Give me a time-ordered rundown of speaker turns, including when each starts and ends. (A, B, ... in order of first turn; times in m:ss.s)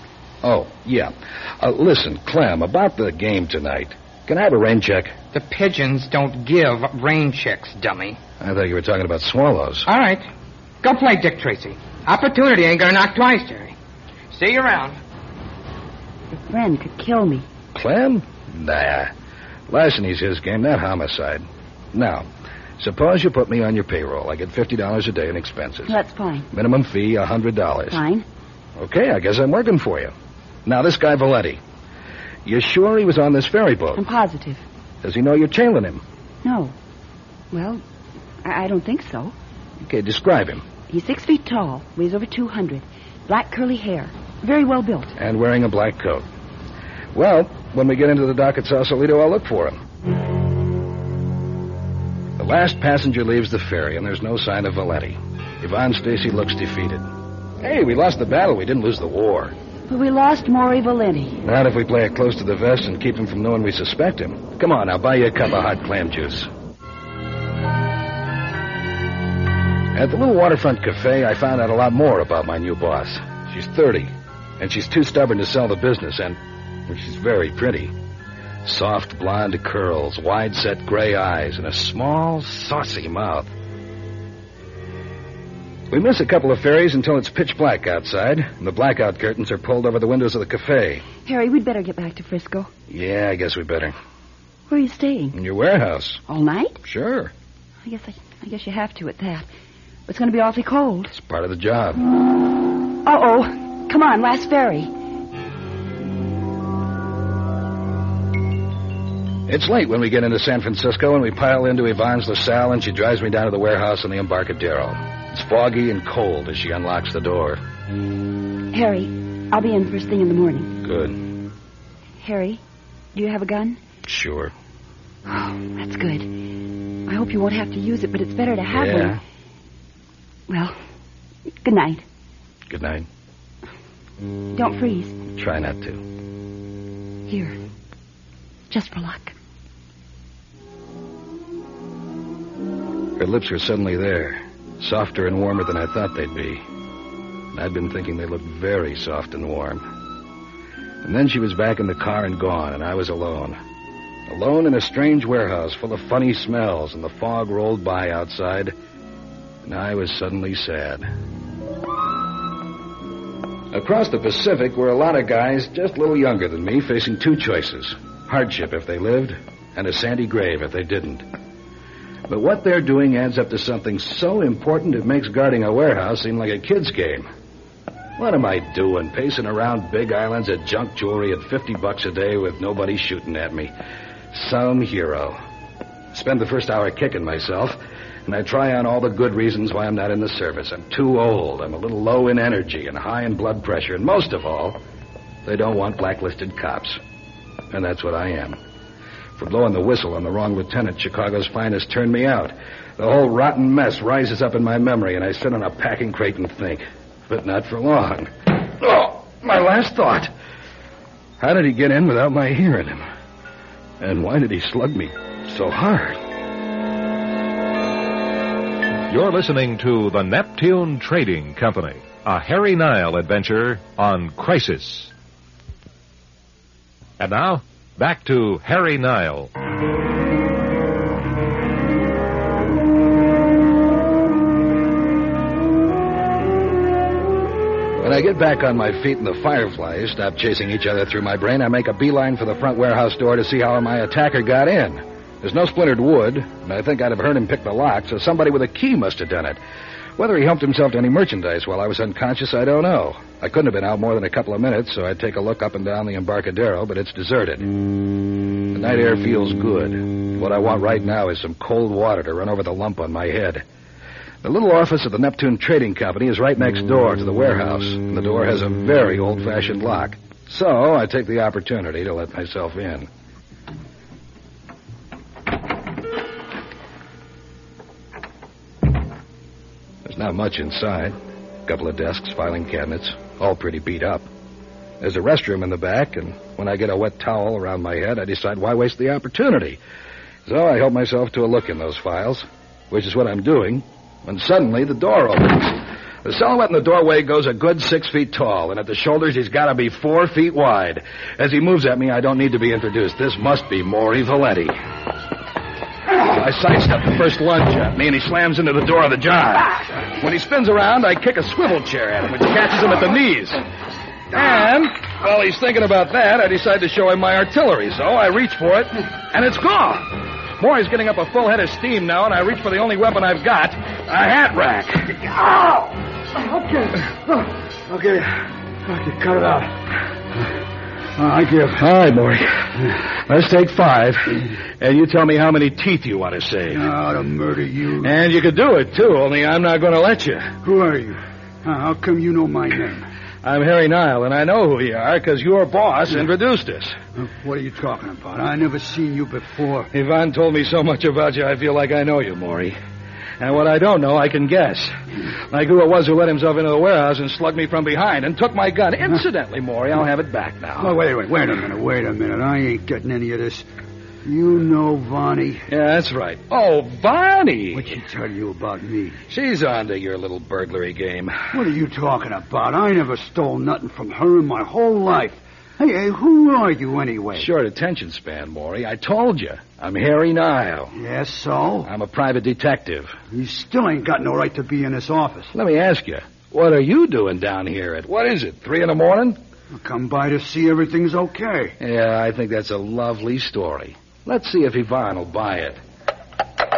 0:00.4-0:05.2 A
0:05.3-0:08.2 B
0:08.4-0:09.9 A
0:09.9-0:10.3 B
0:10.8-0:13.7 B
0:14.3-0:15.0 B
0:16.3-0:17.4 C
0:17.7-0:19.1 A
0:19.7-0:22.3 A
0:22.8-0:26.0 A
0:25.9-0:26.5 C
0:26.5-0:28.0 A
0:27.9-0:28.2 C
0:28.8-0:30.1 A
0:30.6-0:31.6 A
0:32.4-0:34.0 A
0:33.9-0:34.6 C
0:35.0-0:36.0 A
0:36.4-0:36.7 C
0:37.5-0:37.8 C
0:38.4-0:39.4 C
0:39.8-0:40.6 A
0:40.9-0:45.1 C
0:45.2-0:46.3 A
0:47.1-0:49.8 A
0:52.4-0:57.1 A
0:57.6-0:59.5 A
0:59.9-1:01.4 C
1:01.4-1:06.5 A
1:10.0-1:17.9 A
1:18.6-1:23.5 A
1:25.9-1:31.1 A
1:31.2-1:32.7 C
1:32.9-1:33.9 A
1:34.7-1:35.4 C
1:35.3-1:36.2 A
1:36.3-1:36.8 C
1:36.8-1:37.3 A
1:37.8-1:39.5 C
1:40.1-1:41.1 C
1:41.1-1:42.0 A
1:43.0-1:44.9 C
1:49.5-1:57.6 A
1:58.7-2:00.8 C
2:00.8-2:01.2 A
2:02.2-2:02.6 C
2:03.1-2:03.8 C
2:04.0-2:04.5 A
2:05.3-2:06.5 C
2:07.1-2:09.2 C
2:08.7-2:09.2 A
2:10.5-2:10.8 C
2:11.6-2:12.0 C
2:12.7-2:13.1 A
2:14.5-2:15.2 C
2:15.3-2:16.0 A
2:17.3-2:17.6 C
2:18.7-2:19.4 C
2:23.2-2:26.6 A
2:27.5-2:29.8 A
2:31.0-2:33.6 A
2:34.3-2:38.7 A
2:39.6-2:41.1 A
2:43.7-2:51.2 A
2:52.3-2:57.3 A
2:58.2-3:03.7 A
3:04.3-3:05.4 A
3:06.1-3:14.8 A
3:15.4-3:17.0 A
3:17.7-3:18.6 A
3:19.4-3:30.3 A
3:31.4-3:33.0 A
3:34.0-3:36.2 A
3:39.1-3:45.1 D
3:47.2-3:49.5 D
3:58.0-4:09.6 A
4:10.2-4:17.7 A
4:18.7-4:23.6 A
4:24.4-4:33.1 A
4:40.0-4:44.3 A
4:45.0-4:49.8 A
4:50.4-5:04.7 A
5:06.2-5:13.6 A
5:14.3-5:25.3 A
5:25.4-5:25.7 E
5:26.4-5:29.8 E
5:31.2-5:31.8 E
5:31.8-5:36.9 A
5:36.7-5:38.1 E
5:38.0-5:40.5 A
5:40.6-5:43.1 E
5:43.4-5:47.0 A
5:47.2-5:49.9 E
5:49.9-5:52.8 A
5:53.4-5:54.9 A
5:55.5-6:00.9 A
6:00.8-6:03.6 E
6:04.2-6:05.6 E
6:05.7-6:07.9 A
6:07.7-6:09.2 E
6:09.3-6:11.6 A
6:11.5-6:17.5 E
6:17.4-6:20.9 A
6:21.0-6:21.9 E
6:21.8-6:23.2 A
6:23.3-6:25.5 E
6:25.5-6:29.4 A
6:29.7-6:31.8 E
6:31.8-6:35.8 A